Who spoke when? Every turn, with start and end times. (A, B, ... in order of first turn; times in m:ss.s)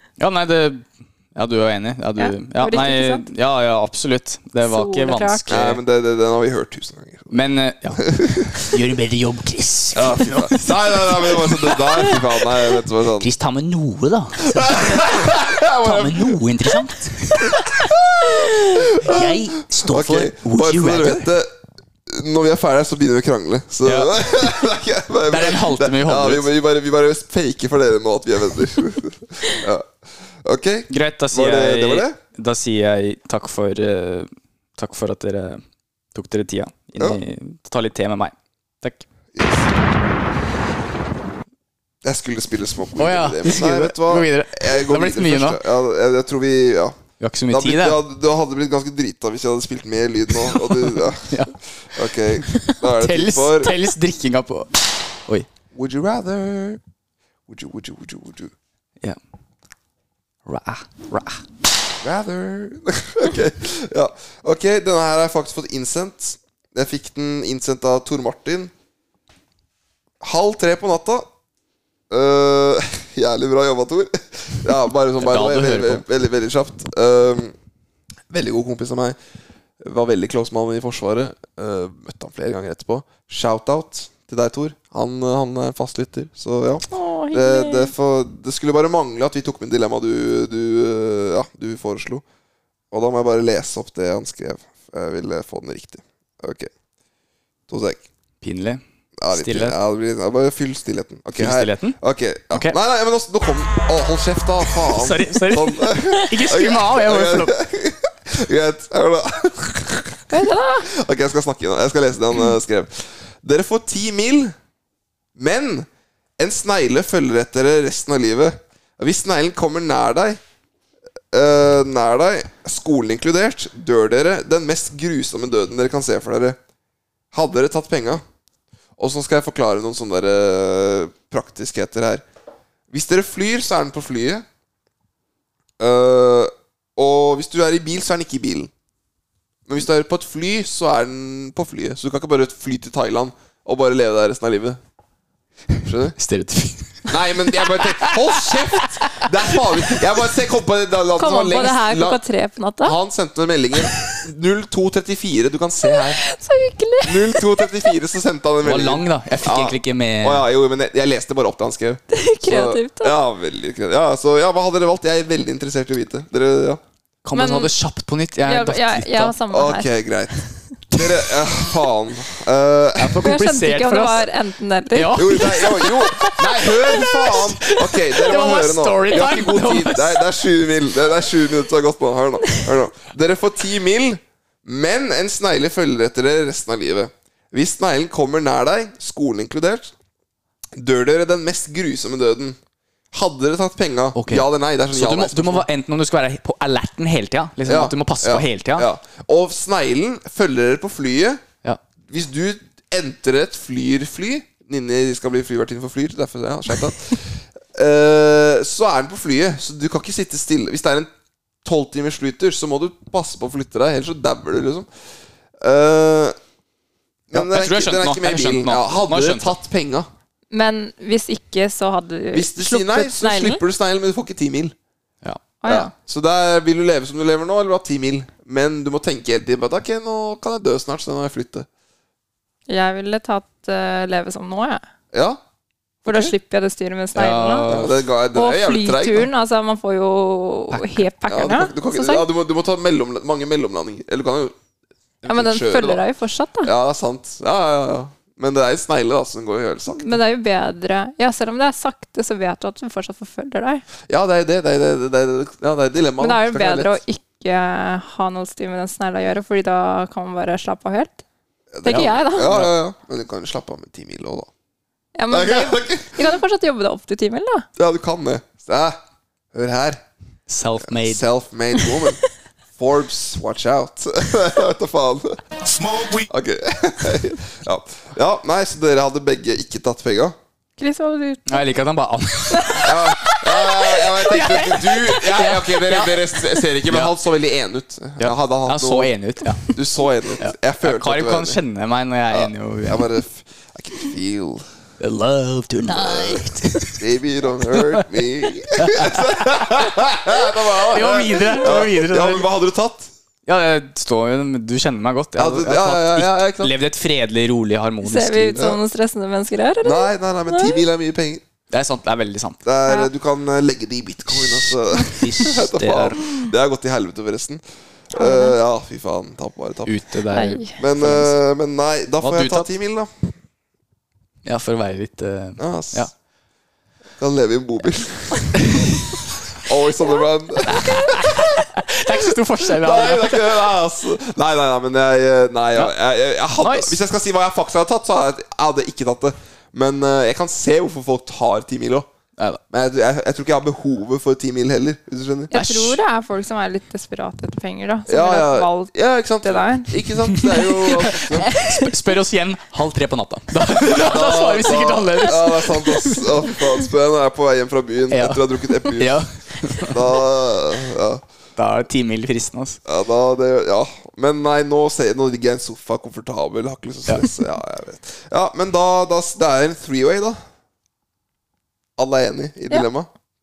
0:00.2-0:05.8 A
0:02.2-0:03.2 B
0:04.6-0:05.4 B
0:05.5-0:07.3 C
0:07.3-0:08.1 A
0:08.0-0:08.8 C
0:08.7-0:12.1 D
0:09.9-0:13.3 C
0:13.2-0:21.3 D
0:14.5-0:16.4 C
0:16.6-0:17.0 A
0:17.8-0:21.5 C
0:22.1-0:29.9 C
0:23.8-0:24.2 A
0:25.3-0:26.5 A
0:30.4-0:32.2 C
0:30.9-0:35.6 A
0:36.1-0:39.0 A
0:39.3-0:39.7 C
0:42.0-0:47.0 C
0:43.0-0:45.6 A
0:47.2-0:48.0 A
0:47.5-0:53.8 C
0:50.5-0:51.5 A
0:52.5-0:54.7 A
0:55.7-0:56.8 C
0:57.5-0:58.5 C
1:00.4-1:01.4 A
1:02.0-1:08.7 C
1:10.2-1:11.2 C
1:12.1-1:17.5 C
1:15.2-1:16.0 A
1:18.3-1:19.2 C
1:19.8-1:32.2 C
1:26.9-1:27.9 B
1:32.9-1:36.7 C
1:37.7-1:38.0 C
1:38.4-1:39.8 A
1:39.2-1:54.5 C
1:41.4-1:42.0 A
1:42.5-1:42.8 A
1:44.8-1:47.5 A
1:50.3-1:50.9 B
1:55.4-2:00.4 C
2:01.3-2:06.6 C
2:07.3-2:08.2 C
2:09.0-2:12.2 C
2:12.9-2:14.4 C
2:15.8-2:18.7 C
2:19.7-2:24.8 C
2:25.8-2:26.2 C
2:26.2-2:29.9 A
2:27.1-2:32.2 C
2:31.2-2:33.0 B
2:32.8-2:36.2 C
2:35.8-2:37.7 B
2:37.0-2:46.8 C
2:38.6-2:40.4 A
2:42.1-2:43.2 B
2:47.2-2:49.3 A
2:47.3-2:47.7 B
2:48.5-2:49.9 B
2:49.5-2:50.3 C
2:50.9-2:53.3 C
2:53.0-2:54.3 A
2:53.2-2:55.8 B
2:54.9-3:00.2 A
2:55.1-3:09.9 C
3:10.8-3:12.6 C
3:13.1-3:15.6 C
3:14.1-3:18.9 A
3:17.6-3:21.4 C
3:22.1-3:31.1 C
3:31.6-3:34.9 C
3:35.6-3:36.3 C
3:37.3-3:40.1 C
3:37.3-3:39.6 A
3:40.5-3:43.6 B
3:42.3-3:44.7 C
3:45.6-3:45.9 B
3:45.6-3:51.7 C
3:52.7-3:54.8 B
3:55.1-3:55.4 C
3:56.0-3:56.3 C
3:56.0-3:57.7 B
3:57.1-3:58.0 A
3:57.7-3:59.3 C
3:58.3-4:02.2 B
4:00.7-4:01.0 A
4:01.3-4:04.5 C
4:05.2-4:06.0 C
4:05.2-4:06.7 B
4:06.6-4:10.2 C
4:09.9-4:13.8 B
4:14.1-4:16.9 C
4:16.2-4:21.2 B
4:21.7-4:24.5 C
4:21.8-4:22.6 B
4:21.8-4:22.7 A
4:25.2-4:27.6 B
4:25.3-4:26.4 C
4:27.8-4:29.0 C
4:29.5-4:30.0 C
4:30.5-4:31.2 A
4:30.8-4:32.2 C
4:32.8-4:40.4 C
4:40.8-4:41.6 B
4:41.5-4:46.1 A
4:42.5-4:42.9 B
4:42.8-4:51.6 C
4:46.9-4:47.1 A
4:48.2-4:49.8 A
4:50.4-4:53.1 A
4:52.3-4:54.6 C
4:55.0-4:56.9 A
4:55.8-4:57.0 D
4:57.0-5:03.1 C
4:58.8-4:59.3 A
5:00.7-5:02.4 A
5:03.4-5:08.6 A
5:05.4-5:06.7 C
5:08.0-5:10.8 B
5:09.8-5:11.4 C
5:11.7-5:12.6 A
5:12.6-5:17.6 C
5:15.2-5:16.1 D
5:15.2-5:16.1 A
5:18.1-5:20.0 C
5:18.1-5:18.6 B
5:19.8-5:21.4 A
5:20.3-5:20.7 B
5:20.7-5:23.3 C
5:22.2-5:22.7 A
5:24.4-5:26.1 A
5:25.6-5:26.1 C
5:27.2-5:28.8 C
5:28.6-5:29.2 A
5:29.5-5:31.4 C
5:30.6-5:33.6 A
5:30.7-5:31.2 B
5:32.6-5:42.1 C
5:36.6-5:37.0 A
5:42.7-5:45.6 C
5:45.5-5:49.9 B
5:45.5-5:46.0 A
5:48.1-5:51.5 C
5:50.3-5:56.2 A
5:51.5-5:51.9 B
5:53.7-5:59.2 C
5:58.1-6:00.1 A
5:59.8-6:01.2 C
6:01.6-6:02.8 A
6:02.8-6:10.4 C
6:12.0-6:13.1 C